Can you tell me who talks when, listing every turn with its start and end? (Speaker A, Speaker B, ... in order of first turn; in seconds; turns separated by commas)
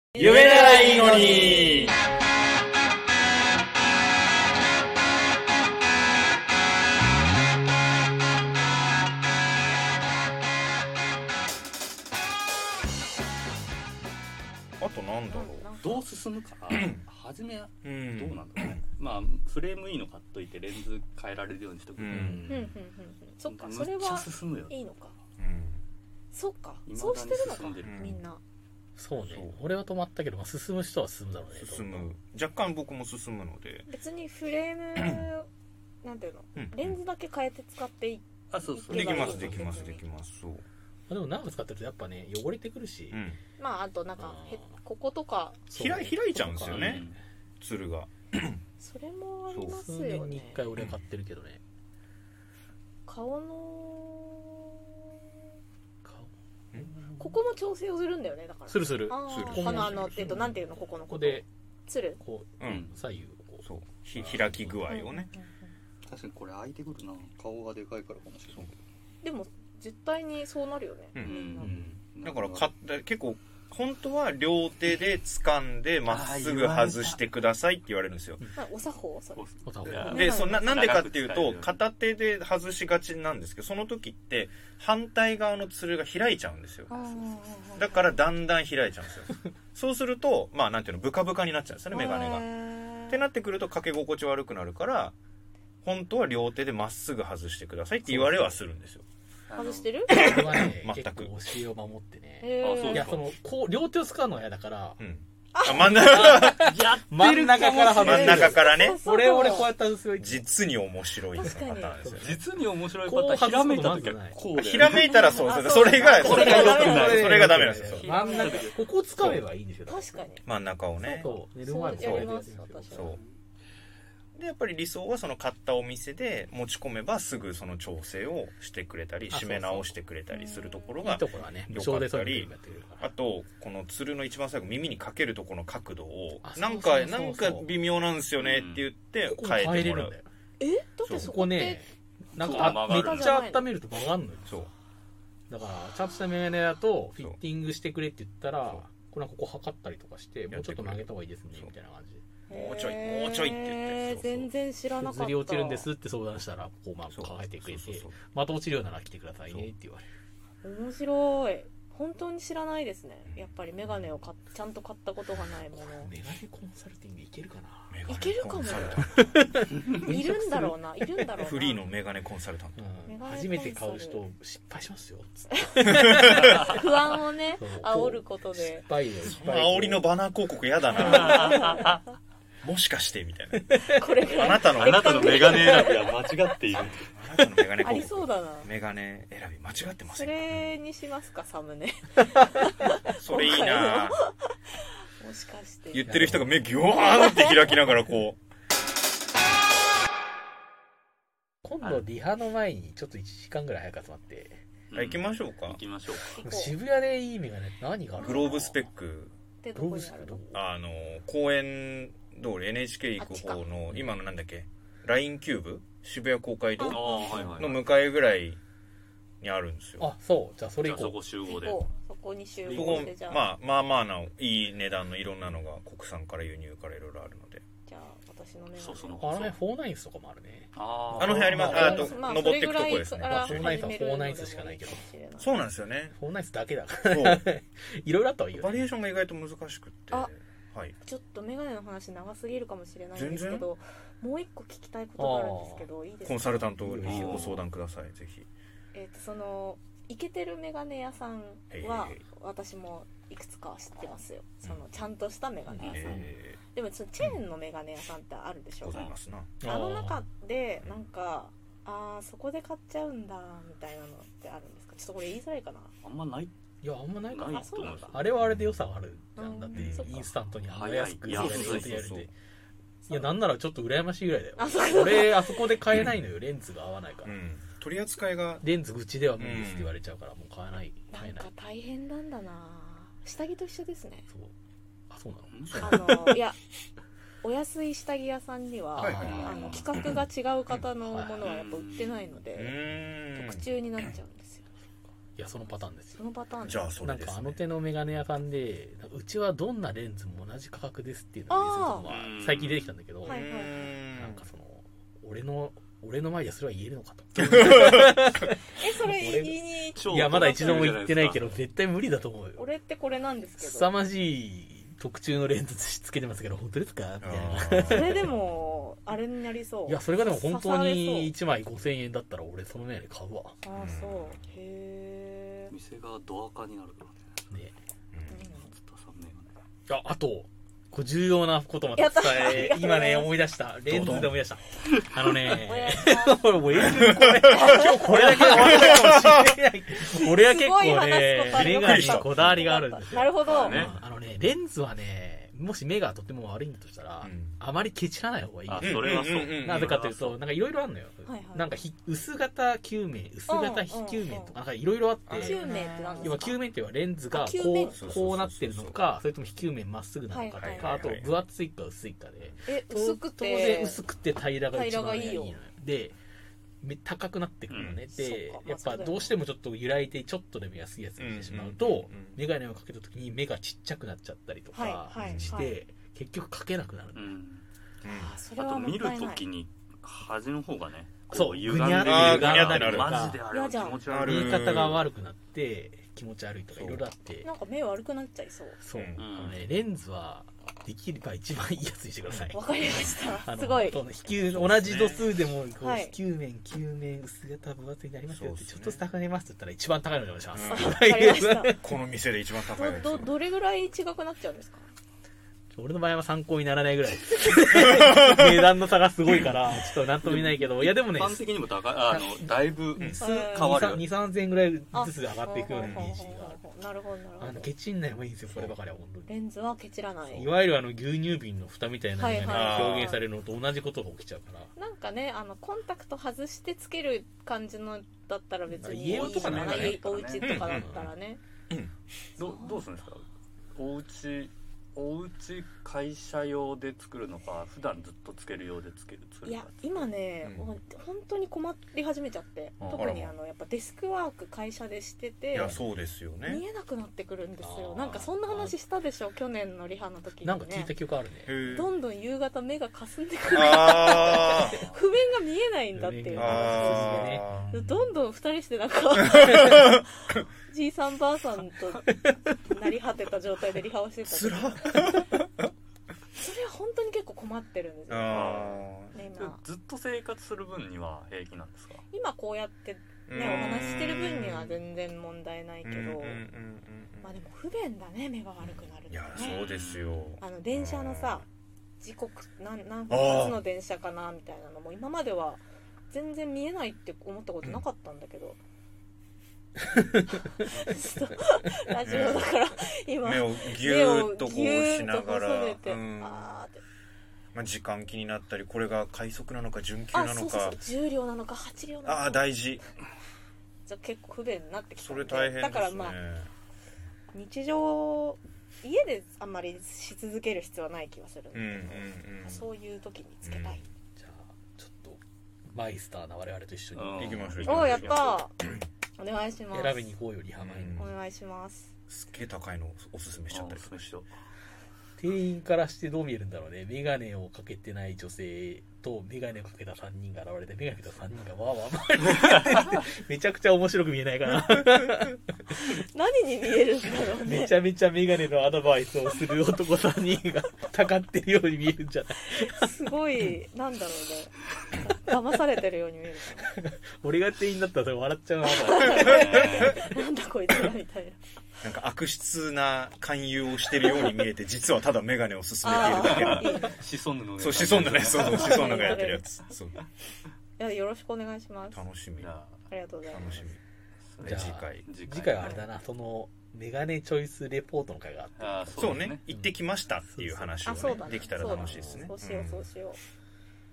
Speaker A: 0.1-0.4, Speaker B: 0.2-1.9, Speaker C: 0.2-1.7, Speaker B: 14.8-15.7, Speaker A: 15.3-16.1, Speaker C: 15.8-22.7, Speaker B: 16.7-17.0, Speaker B: 17.8-18.8, Speaker B: 22.0-22.4, Speaker D: 22.1-22.6, Speaker A: 22.5-25.1, Speaker C: 23.4-24.7, Speaker B: 25.4-25.8, Speaker A: 26.3-28.4, Speaker C: 26.9-28.1, Speaker B: 27.8-28.2, Speaker D: 29.0-32.1, Speaker B: 29.2-29.6, Speaker B: 31.6-33.9, Speaker A: 33.9-35.5, Speaker B: 35.0-35.2, Speaker A: 36.0-40.0, Speaker B: 36.5-37.0, Speaker C: 38.5-39.7, Speaker B: 38.9-40.6, Speaker D: 39.4-39.6, Speaker D: 41.1-43.2, Speaker B: 43.1-43.4, Speaker A: 43.6-45.7, Speaker D: 44.2-44.7, Speaker D: 45.7-47.1, Speaker B: 45.7-47.0, Speaker C: 46.7-47.2, Speaker B: 47.6-48.6, Speaker A: 48.8-50.6, Speaker B: 49.5-49.8, Speaker D: 49.7-51.6, Speaker A: 53.0-55.4, Speaker D: 56.0-57.4, Speaker A: 57.2-62.2, Speaker D: 58.7-61.5, Speaker B: 59.2-60.3, Speaker D: 62.2-63.6, Speaker B: 62.6-62.9, Speaker C: 62.6-63.0, Speaker B: 63.6-65.3, Speaker D: 64.2-64.6, Speaker A: 64.9-65.7, Speaker C: 66.0-68.7, Speaker A: 69.2-71.7, Speaker C: 71.2-72.7, Speaker D: 71.6-72.0, Speaker B: 72.2-78.4, Speaker C: 76.1-77.2, Speaker A: 78.5-80.8, Speaker C: 79.3-81.8, Speaker D: 79.6-80.4, Speaker B: 80.1-87.1, Speaker A: 86.9-88.1, Speaker B: 87.7-92.5, Speaker A: 91.9-93.2, Speaker B: 93.1-95.2, Speaker B: 95.8-99.0, Speaker D: 98.0-98.6, Speaker C: 99.5-99.9, Speaker A: 99.5-100.3, Speaker D: 100.1-105.0, Speaker B: 100.1-101.3, Speaker A: 102.4-103.1, Speaker C: 102.6-103.2, Speaker B: 105.0-106.8, Speaker A: 105.5-105.9, Speaker D: 105.8-110.5, Speaker C: 106.0-108.3, Speaker A: 107.9-109.7, Speaker B: 108.0-109.0, Speaker B: 110.2-112.4, Speaker A: 111.3-112.0, Speaker D: 112.0-112.4, Speaker C: 112.2-117.4, Speaker D: 113.0-114.4, Speaker B: 114.5-118.1, Speaker A: 115.3-117.2, Speaker D: 116.2-120.3, Speaker C: 118.0-118.8, Speaker A: 118.2-118.5, Speaker B: 119.2-119.4, Speaker A: 119.9-120.4, Speaker B: 120.4-121.3, Speaker A: 121.0-123.2, Speaker D: 121.1-123.1, Speaker B: 121.9-122.3, Speaker B: 122.9-123.2, Speaker B: 124.3-140.1, Speaker D: 129.3-129.9, Speaker A: 130.3-131.0, Speaker D: 131.0-133.1, Speaker D: 136.4-137.7, Speaker C: 138.4-138.8, Speaker D: 139.2-140.3, Speaker A: 140.6-141.8, Speaker B: 141.0-141.3, Speaker D: 141.1-144.7, Speaker C: 142.4-143.4, Speaker A: 142.4-143.7, Speaker D: 145.5-152.2, Speaker B: 150.5-151.7, Speaker A: 152.5-155.9, Speaker B: 152.5-154.5, Speaker D: 155.0-160.0, Speaker B: 157.1-158.2, Speaker A: 160.6-166.1, Speaker B: 163.3-164.1, Speaker D: 165.7-168.0, Speaker B: 167.9-169.2, Speaker A: 168.1-169.1, Speaker D: 169.0-170.8, Speaker A: 169.9-171.8, Speaker B: 171.4-172.8, Speaker D: 172.8-176.2, Speaker A: 173.1-174.2, Speaker A: 175.5-178.9, Speaker D: 177.6-180.1, Speaker B: 179.2-181.7, Speaker A: 180.9-181.9, Speaker C: 181.0-182.0, Speaker B: 182.6-185.5, Speaker A: 183.8-186.2, Speaker C: 184.7-187.1, Speaker B: 186.8-190.8, Speaker A: 187.8-188.7, Speaker A: 190.2-194.4, Speaker B: 193.1-194.2, Speaker A: 195.2-196.2, Speaker B: 195.9-198.4, Speaker D: 196.1-196.7, Speaker A: 197.0-197.7, Speaker D: 201.6-204.6, Speaker C: 204.9-206.4, Speaker B: 204.9-205.8, Speaker A: 206.3-206.8, Speaker D: 206.4-208.6, Speaker A: 208.2-208.7, Speaker B: 208.2-209.3, Speaker A: 209.6-210.4, Speaker D: 209.7-210.6, Speaker B: 210.5-218.6, Speaker A: 213.2-213.6, Speaker A: 216.8-217.6, Speaker C: 216.8-217.8, Speaker B: 219.4-220.1, Speaker D: 220.0-221.2, Speaker C: 220.8-221.8, Speaker A: 221.4-223.4, Speaker D: 222.6-223.1, Speaker B: 222.7-227.6, Speaker A: 227.8-229.3, Speaker C: 228.8-229.6, Speaker D: 229.2-232.2, Speaker C: 230.7-231.8, Speaker B: 231.2-233.9, Speaker A: 231.5-235.5, Speaker D: 233.2-235.0, Speaker B: 235.4-236.2, Speaker D: 236.1-238.9, Speaker B: 237.1-237.5, Speaker B: 238.5-240.9, Speaker A: 241.0-246.7, Speaker B: 243.1-243.7, Speaker D: 245.2-245.9, Speaker B: 246.2-248.5, Speaker D: 246.8-247.6, Speaker C: 247.1-247.4, Speaker A: 248.9-259.1, Speaker B: 251.7-252.2, Speaker D: 255.7-256.2, Speaker B: 255.8-256.6, Speaker B: 258.8-259.5, Speaker C: 258.9-259.1, Speaker D: 259.6-260.2, Speaker A: 259.6-265.9, Speaker C: 266.0-266.5, Speaker D: 266.8-272.3, Speaker C: 267.3-268.2, Speaker A: 267.5-268.2, Speaker A: 269.4-270.2, Speaker B: 269.7-270.3, Speaker C: 270.7-272.0, Speaker B: 271.3-272.3, Speaker A: 273.0-273.4, Speaker D: 273.1-277.3, Speaker A: 274.6-275.8, Speaker B: 277.2-278.7, Speaker D: 278.6-281.5, Speaker B: 279.4-279.9, Speaker A: 281.1-284.2, Speaker D: 285.1-286.3, Speaker C: 285.5-285.8, Speaker B: 285.7-286.1, Speaker A: 285.8-286.6, Speaker A: 287.4-292.8, Speaker D: 288.9-289.8, Speaker B: 289.0-290.1, Speaker D: 291.1-291.4, Speaker C: 291.4-292.4, Speaker B: 292.5-293.6, Speaker A: 293.3-294.6, Speaker D: 295.3-296.2, Speaker A: 296.1-296.9, Speaker B: 296.6-297.6, Speaker D: 297.0-303.4, Speaker A: 301.5-302.1, Speaker C: 302.1-302.9, Speaker A: 303.2-303.9, Speaker B: 303.2-304.4, Speaker D: 304.1-312.7, Speaker B: 307.4-308.1, Speaker A: 308.7-310.9, Speaker C: 309.9-311.6, Speaker A: 312.6-313.9, Speaker D: 313.6-318.3, Speaker B: 317.2-318.4, Speaker A: 317.9-321.3, Speaker D: 319.9-323.6, Speaker A: 323.6-325.7, Speaker B: 323.7-324.4, Speaker C: 325.7-327.4, Speaker D: 327.5-327.8, Speaker B: 328.1-328.4, Speaker A: 328.3-328.7, Speaker C: 328.6-329.5, Speaker D: 329.9-355.6, Speaker A: 331.9-333.3, Speaker B: 333.9-334.4, Speaker A: 335.5-336.6, Speaker B: 336.9-337.5, Speaker A: 337.4-338.8, Speaker B: 338.2-339.5, Speaker A: 340.2-343.9, Speaker B: 341.5-342.8, Speaker C: 343.4-343.9, Speaker B: 347.2-347.6, Speaker C: 348.7-350.4, Speaker B: 348.8-350.0, Speaker A: 351.2-351.8, Speaker A: 353.5-354.6, Speaker B: 355.3-356.1, Speaker A: 355.3-356.6, Speaker D: 356.2-366.2, Speaker A: 357.3-358.0, Speaker B: 357.9-359.0, Speaker A: 360.3-361.0, Speaker B: 360.5-361.3, Speaker A: 362.7-364.0, Speaker A: 364.7-365.6, Speaker D: 366.8-377.3, Speaker C: 367.7-368.0, Speaker B: 367.7-368.0, Speaker A: 368.1-369.4, Speaker B: 371.2-372.4, Speaker A: 374.7-375.8, Speaker B: 375.2-375.6, Speaker C: 377.1-377.6, Speaker B: 378.0-378.3, Speaker A: 378.0-379.4, Speaker C: 378.5-384.8, Speaker D: 381.3-383.4, Speaker B: 382.0-383.2, Speaker A: 383.5-384.0, Speaker B: 384.0-385.1, Speaker D: 384.2-387.5, Speaker B: 386.7-387.1, Speaker A: 387.4-388.8, Speaker D: 388.8-401.8, Speaker B: 388.9-389.3, Speaker C: 389.2-389.7, Speaker A: 392.5-394.0, Speaker B: 394.4-395.3, Speaker A: 395.8-396.1, Speaker B: 398.3-399.0, Speaker B: 400.5-401.0, Speaker A: 400.7-401.8, Speaker B: 401.8-403.3, Speaker A: 402.6-404.9, Speaker D: 405.7-411.4, Speaker C: 410.2-414.0, Speaker D: 412.1-412.4, Speaker D: 413.0-416.6, Speaker A: 413.2-413.8, Speaker A: 414.9-417.7, Speaker B: 415.8-416.1, Speaker D: 417.4-419.3, Speaker A: 419.3-420.6, Speaker D: 420.3-424.7, Speaker A: 422.2-423.2, Speaker B: 422.4-423.2, Speaker A: 424.8-431.4, Speaker D: 428.7-430.0, Speaker C: 429.1-430.8, Speaker B: 430.4-431.0, Speaker D: 430.6-431.1, Speaker A: 432.4-432.8, Speaker C: 432.4-440.1, Speaker A: 439.4-445.8, Speaker B: 440.4-440.7, Speaker D: 442.8-443.2, Speaker B: 442.9-443.3, Speaker B: 445.5-446.6, Speaker A: 446.4-450.9, Speaker D: 447.6-448.7, Speaker D: 450.4-451.5, Speaker B: 451.4-451.9, Speaker A: 451.7-462.1, Speaker B: 453.5-454.8, Speaker C: 454.2-454.9, Speaker D: 455.9-457.5, Speaker B: 456.4-457.9, Speaker B: 459.4-459.6, Speaker D: 462.0-462.7, Speaker A: 462.6-465.2, Speaker B: 464.2-465.4, Speaker A: 466.4-469.6, Speaker B: 468.1-469.1, Speaker C: 468.3-472.1, Speaker A: 472.1-476.4, Speaker B: 473.3-474.8, Speaker B: 475.8-477.4, Speaker A: 477.2-479.6, Speaker B: 478.6-481.4, Speaker C: 479.4-480.2, Speaker A: 480.4-481.4, Speaker A: 482.0-488.6, Speaker B: 483.1-483.6, Speaker A: 490.5-496.8, Speaker B: 492.1-492.5, Speaker B: 493.2-496.6, Speaker B: 497.5-500.8, Speaker A: 500.1-502.5, Speaker B: 502.0-502.8, Speaker A: 503.9-506.2, Speaker B: 505.0-506.5, Speaker A: 507.3-513.8, Speaker B: 511.5-512.7, Speaker B: 513.4-513.9, Speaker D: 514.1-515.2, Speaker D: 515.7-517.8, Speaker C: 516.9-518.4, Speaker B: 517.2-518.4, Speaker A: 517.6-518.5, Speaker A: 519.2-520.1, Speaker D: 519.7-521.1, Speaker B: 520.6-521.1, Speaker A: 521.0-521.9, Speaker B: 522.1-524.1, Speaker C: 523.5-524.3, Speaker D: 525.2-535.8, Speaker A: 535.9-537.8, Speaker D: 537.4-542.9, Speaker A: 542.5-546.7, Speaker D: 546.7-550.1, Speaker A: 548.7-551.4, Speaker C: 549.2-550.0, Speaker B: 551.8-556.8, Speaker A: 555.8-557.0, Speaker C: 556.0-559.2, Speaker B: 557.6-560.0, Speaker A: 558.3-559.4, Speaker A: 560.8-562.0, Speaker B: 561.9-562.5, Speaker C: 562.4-562.8, Speaker A: 562.9-563.7, Speaker B: 563.3-563.8, Speaker C: 564.3-565.8, Speaker B: 564.4-565.1, Speaker D: 564.4-572.2, Speaker A: 565.6-565.8, Speaker C: 568.6-569.4, Speaker B: 569.0-572.9, Speaker A: 570.9-573.2